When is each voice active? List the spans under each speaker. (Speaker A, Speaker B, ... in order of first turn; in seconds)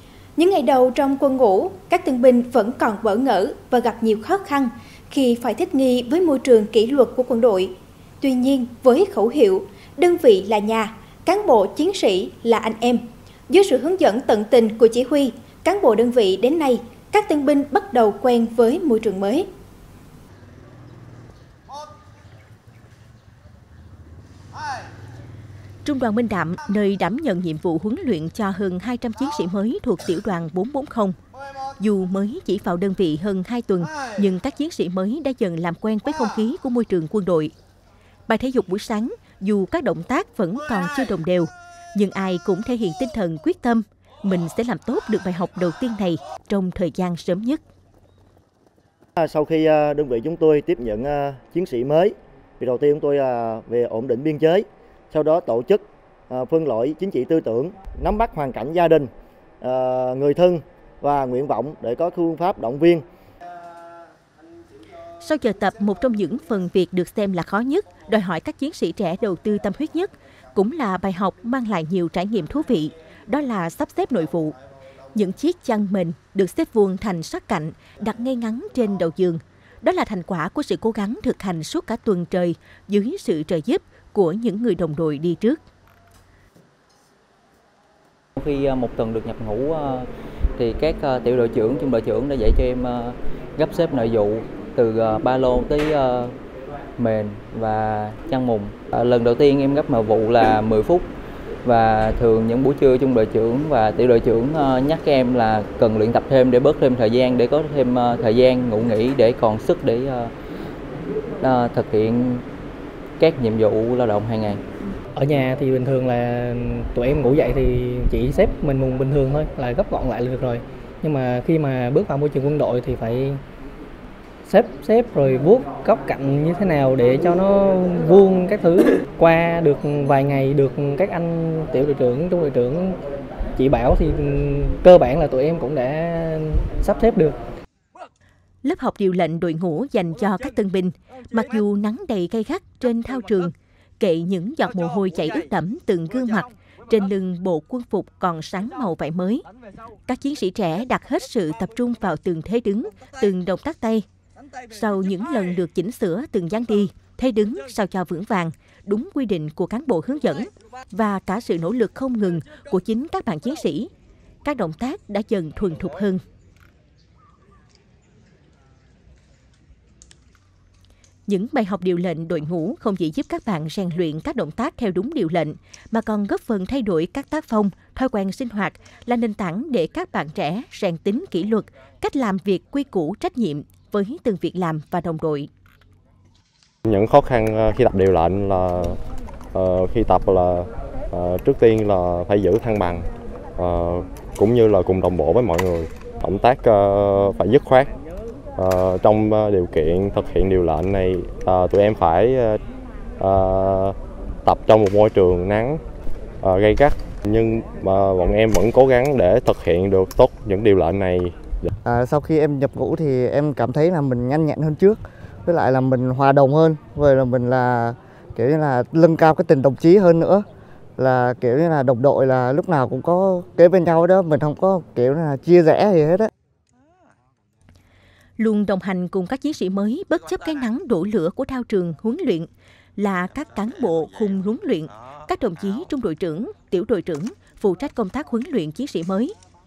Speaker A: 0.3-19.5
Speaker B: 25.8-31.1, 31.8-37.5, 38.3-47.6, 65.2-74.5, 75.1-85.6, 138.6-149.4, 150.1-154.0, 154.7-163.9, 164.4-166.2, 171.3-185.5, 228.4-239.3
Speaker C: 49.2-63.0
Speaker D: 88.4-96.3, 97.0-101.1, 101.6-110.3, 111.4-112.4, 113.2-114.6
Speaker E: 115.1-123.4, 124.5-133.0, 133.6-137.3
Speaker F: 186.9-189.0, 189.5-193.1, 193.6-197.9, 198.6-202.6, 203.2-203.9, 204.4-205.8, 206.4-211.7
Speaker G: 211.8-220.4, 221.0-226.3